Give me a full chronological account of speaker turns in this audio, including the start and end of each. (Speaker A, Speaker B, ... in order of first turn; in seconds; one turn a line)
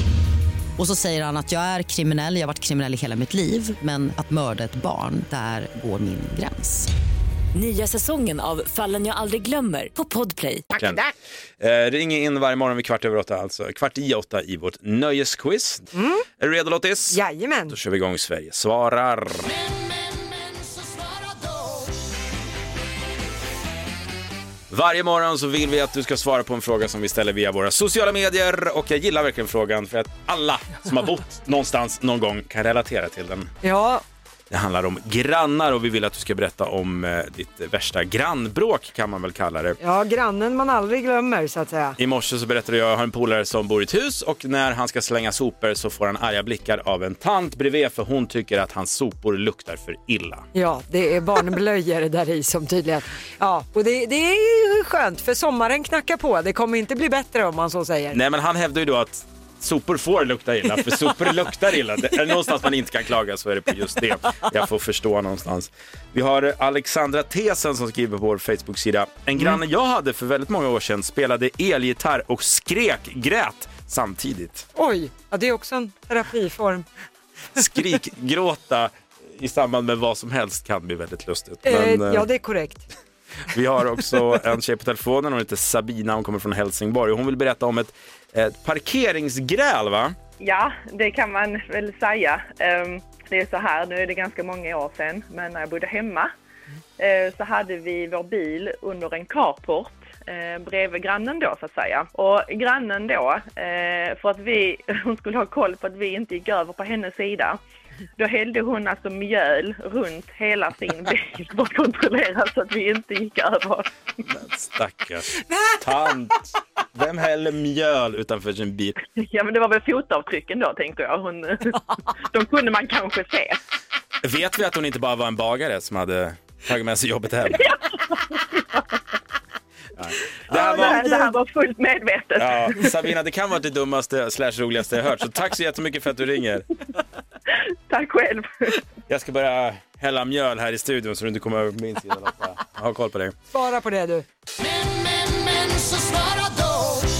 Speaker A: 0.8-6.9
Speaker B: 7.5-10.7
Speaker C: 10.8-11.1
Speaker D: 11.6-15.9
Speaker C: 15.9-16.2
Speaker D: 16.4-19.5
Speaker C: 17.1-17.7
Speaker D: 24.7-33.5
Speaker C: 33.6-34.0
Speaker D: 34.5-39.8
Speaker C: 39.8-42.0
Speaker D: 42.0-50.5
Speaker C: 50.5-58.2
Speaker D: 58.1-74.7
Speaker C: 74.8-76.8
Speaker D: 77.5-82.3
Speaker C: 81.6-82.8
Speaker D: 83.5-90.1
Speaker E: 90.4-96.3
Speaker E: 97.0-107.6
Speaker E: 108.2-113.9
Speaker D: 114.3-119.0
Speaker E: 119.1-123.6
Speaker D: 124.2-127.6
Speaker E: 127.5-128.4
Speaker D: 130.0-131.1
Speaker E: 130.5-132.9
Speaker C: 130.8-131.3
Speaker D: 132.4-136.7
Speaker E: 137.9-138.7
Speaker D: 139.1-143.3
Speaker C: 143.5-144.2